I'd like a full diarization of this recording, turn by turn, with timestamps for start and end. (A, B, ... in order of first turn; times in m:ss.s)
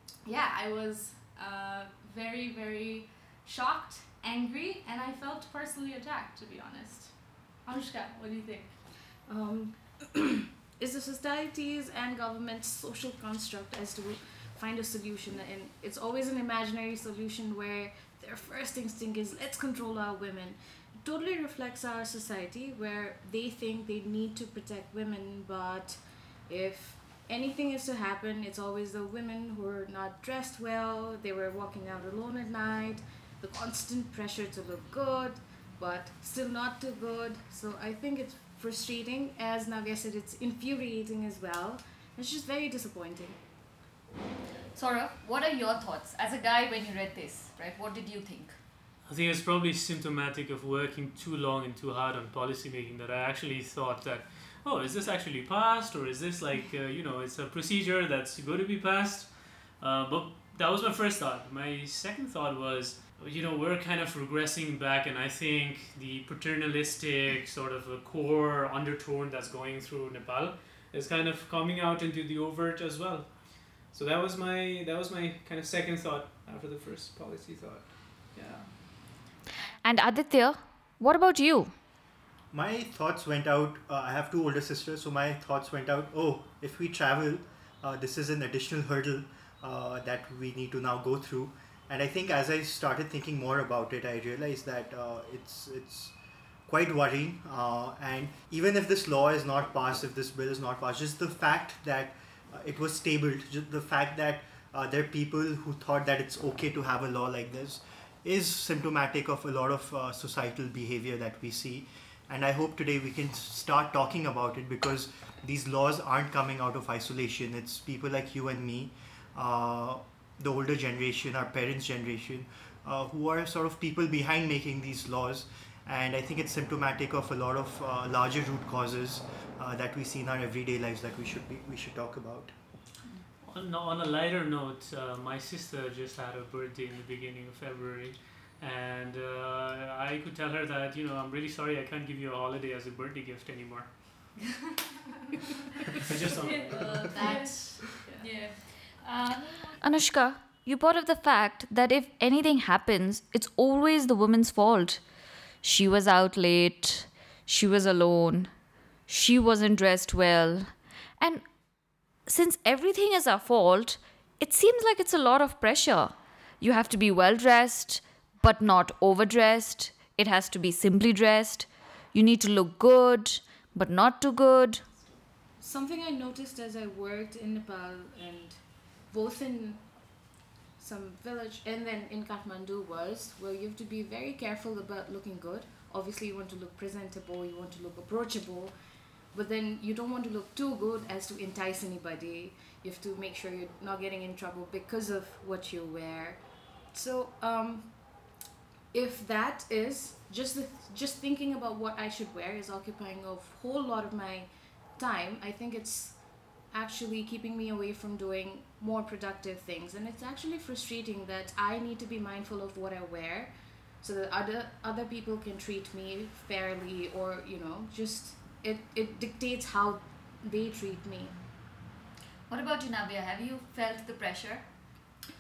0:00.3-0:08.7 A
0:09.3-0:43.4 B
0:44.8-0:48.6 C
0:49.1-1:18.7 D
1:19.8-1:21.7 C
1:22.5-1:36.2 E
1:36.7-2:12.5 E
2:13.4-2:24.4 D
2:25.9-2:27.2 D
2:26.5-2:28.4 A
2:26.7-2:27.5 C
2:28.1-2:35.0 C
2:35.6-2:38.5 C
2:39.1-2:41.5 C
2:42.3-2:54.8 C
2:55.6-2:59.9 B
3:00.8-3:08.7 B
3:09.3-3:18.0 B
3:18.9-3:33.5 B
3:34.0-3:41.3 B
3:42.5-3:44.6 C